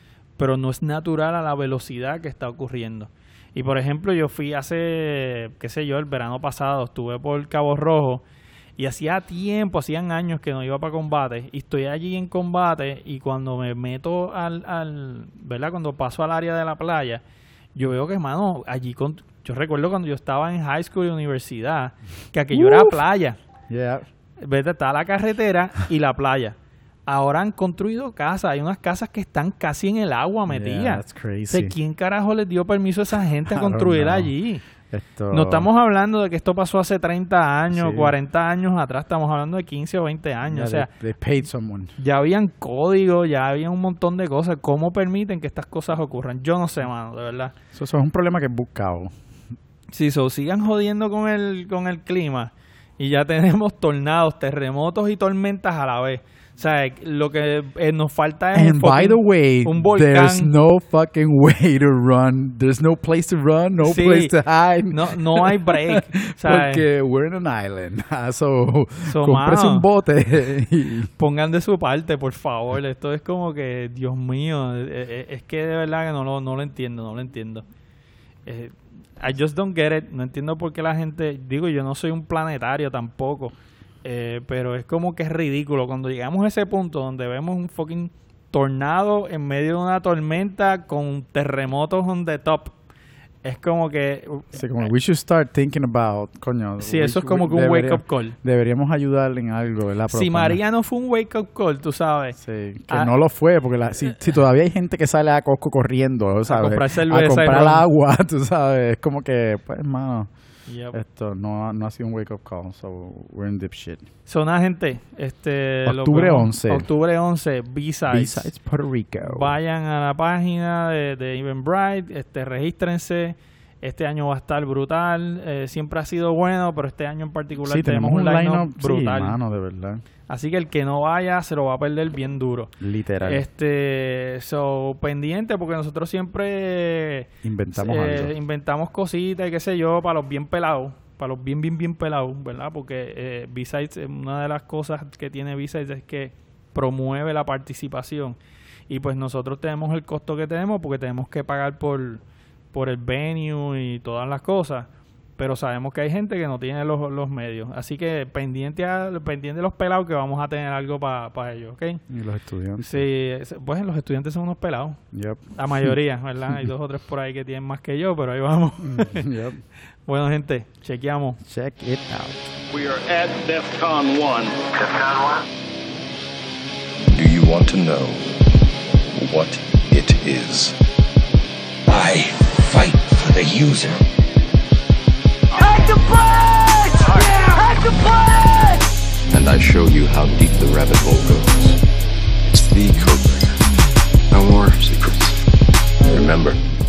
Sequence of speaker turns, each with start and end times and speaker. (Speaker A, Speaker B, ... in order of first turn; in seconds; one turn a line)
Speaker A: 0.4-8.2
Speaker A: 8.8-17.2
Speaker A: 17.7-23.4
Speaker B: 22.5-23.0
Speaker B: 23.7-24.0
Speaker A: 24.4-26.6
Speaker A: 27.1-34.6
Speaker B: 30.5-31.7
Speaker B: 33.5-34.3
Speaker B: 34.9-35.7
Speaker A: 35.3-40.9
Speaker B: 37.7-38.1
Speaker B: 40.4-41.9
Speaker A: 42.0-47.5
Speaker B: 47.7-49.1
Speaker A: 49.9-60.5
Speaker B: 58.5-71.1
Speaker A: 63.8-64.3
Speaker A: 64.9-66.8
Speaker A: 69.0-69.8
Speaker A: 71.2-77.7
Speaker A: 78.5-92.7
Speaker A: 93.4-94.9
Speaker B: 94.5-100.6
Speaker A: 96.8-98.3
Speaker A: 100.1-102.4
Speaker B: 102.4-110.3
Speaker A: 106.5-107.8
Speaker A: 110.7-111.0
Speaker B: 110.9-114.0
Speaker A: 114.2-118.5
Speaker B: 115.8-116.9
Speaker B: 118.1-119.6
Speaker A: 119.2-129.4
Speaker B: 127.6-130.0
Speaker A: 130.3-148.4
Speaker B: 132.8-133.4
Speaker B: 137.4-138.3
Speaker A: 148.9-162.0
Speaker B: 162.1-163.1
Speaker A: 162.8-165.0
Speaker B: 165.1-165.9
Speaker A: 165.6-169.3
Speaker B: 168.8-169.6
Speaker A: 170.1-171.4
Speaker B: 171.4-172.4
Speaker C: 172.7-174.7
Speaker D: 174.8-175.2
Speaker D: 177.0-178.3
Speaker D: 179.1-180.8
Speaker D: 181.9-184.0
Speaker E: 185.5-188.9
Speaker D: 189.3-191.8
Speaker D: 192.5-193.6
Speaker D: 194.3-195.4
Speaker D: 196.1-196.6